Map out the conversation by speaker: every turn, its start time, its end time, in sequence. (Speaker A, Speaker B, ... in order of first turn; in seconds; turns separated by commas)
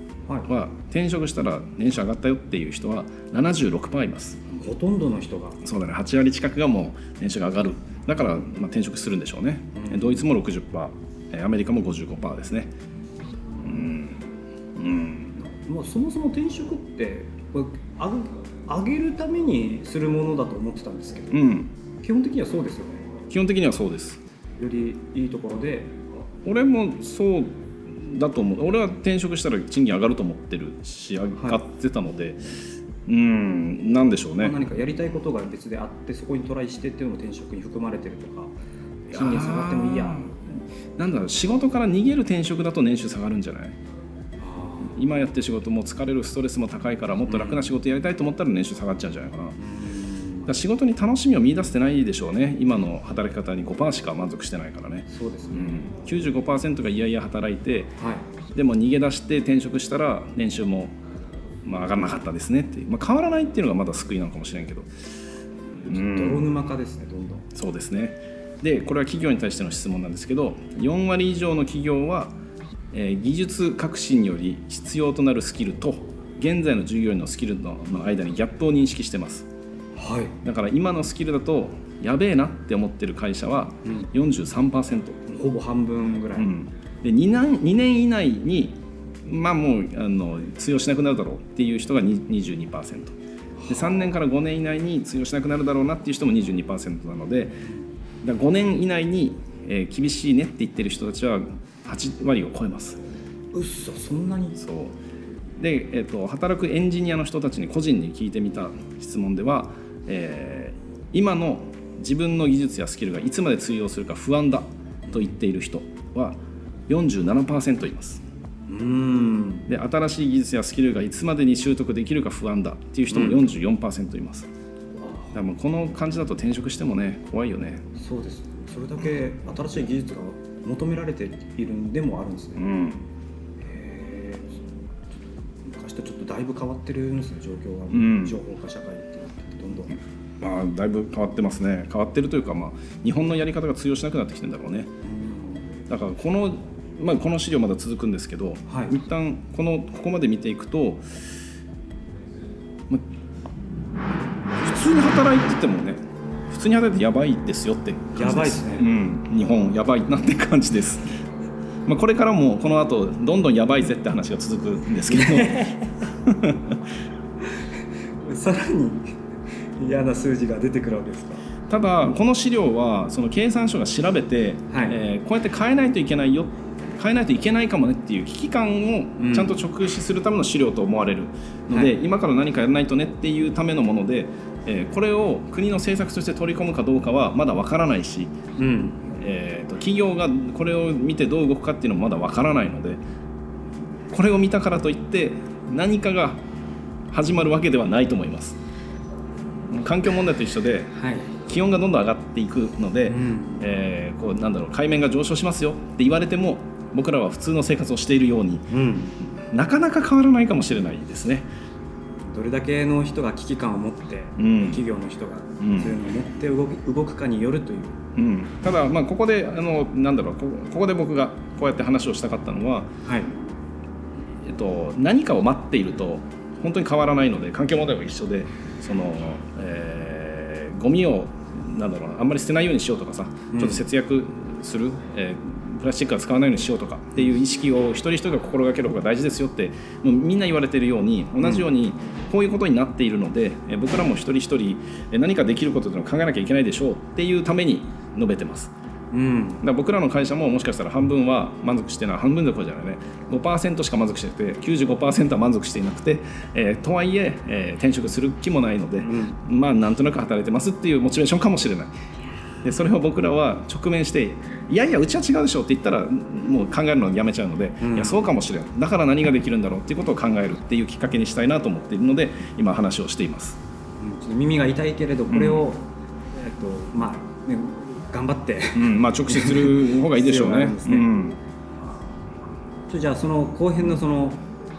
Speaker A: 0.5-4.4, Speaker B: 4.5-5.6, Speaker A: 5.6-12.7, Speaker B: 9.8-10.3, Speaker A: 13.6-15.4, Speaker B: 15.4-23.1, Speaker A: 21.3-21.7, Speaker A: 23.3-24.2, Speaker B: 24.6-25.9, Speaker A: 26.4-32.4, Speaker A: 33.1-34.6, Speaker B: 34.4-38.5, Speaker B: 39.1-40.3, Speaker A: 39.1-43.8, Speaker B: 44.4-45.0, Speaker A: 44.9-49.6, Speaker B: 47.3-47.7, Speaker B: 49.6-50.5, Speaker A: 50.5-57.9, Speaker B: 55.1-55.9, Speaker B: 58.0-58.3, Speaker A: 58.5-60.9, Speaker A: 61.6-64.9, Speaker B: 65.9-67.5, Speaker A: 65.9-66.5, Speaker A: 67.5-72.4, Speaker A: 72.9-79.5, Speaker B: 80.0-80.4, Speaker A: 80.4-85.2, Speaker B: 85.3-86.5, Speaker A: 86.4-93.2, Speaker B: 93.6-94.1, Speaker A: 93.7-97.6, Speaker A: 98.2-103.0, Speaker B: 103.5-104.6, Speaker A: 104.6-105.0, Speaker A: 105.6-118.2, Speaker B: 118.7-119.7, Speaker A: 119.7-124.5, Speaker B: 123.1-123.5, Speaker B: 125.0-125.3, Speaker A: 125.3-127.9, Speaker B: 128.0-132.7, Speaker A: 132.6-133.0, Speaker B: 133.6-134.7, Speaker B: 135.7-140.0, Speaker A: 137.9-138.4, Speaker A: 140.4-144.9, Speaker B: 145.0-145.8, Speaker A: 145.9-151.2, Speaker B: 148.7-148.9, Speaker A: 154.6-161.1, Speaker B: 158.2-158.9, Speaker A: 161.9-166.8, Speaker B: 165.1-165.9, Speaker B: 168.2-169.1, Speaker B: 169.8-171.5, Speaker A: 171.7-188.3, Speaker B: 174.7-175.0, Speaker B: 179.2-179.6, Speaker B: 188.6-189.0, Speaker A: 189.1-193.0, Speaker A: 194.1-196.4, Speaker A: 197.1-198.6, Speaker A: 199.7-200.9, Speaker B: 200.9-201.3, Speaker A: 201.5-208.7, Speaker B: 203.1-203.7, Speaker B: 208.7-209.2, Speaker A: 209.2-211.5, Speaker B: 212.3-218.0, Speaker A: 214.4-214.8, Speaker A: 215.6-216.0, Speaker A: 218.2-222.9, Speaker B: 223.1-223.3, Speaker A: 224.4-248.7, Speaker B: 233.5-233.8, Speaker B: 241.4-241.7, Speaker B: 249.1-249.6, Speaker A: 249.6-261.9, Speaker B: 259.0-259.4, Speaker A: 262.6-273.6, Speaker B: 267.8-268.3, Speaker B: 274.0-281.1, Speaker A: 275.3-275.7, Speaker A: 278.8-281.4, Speaker B: 282.9-284.4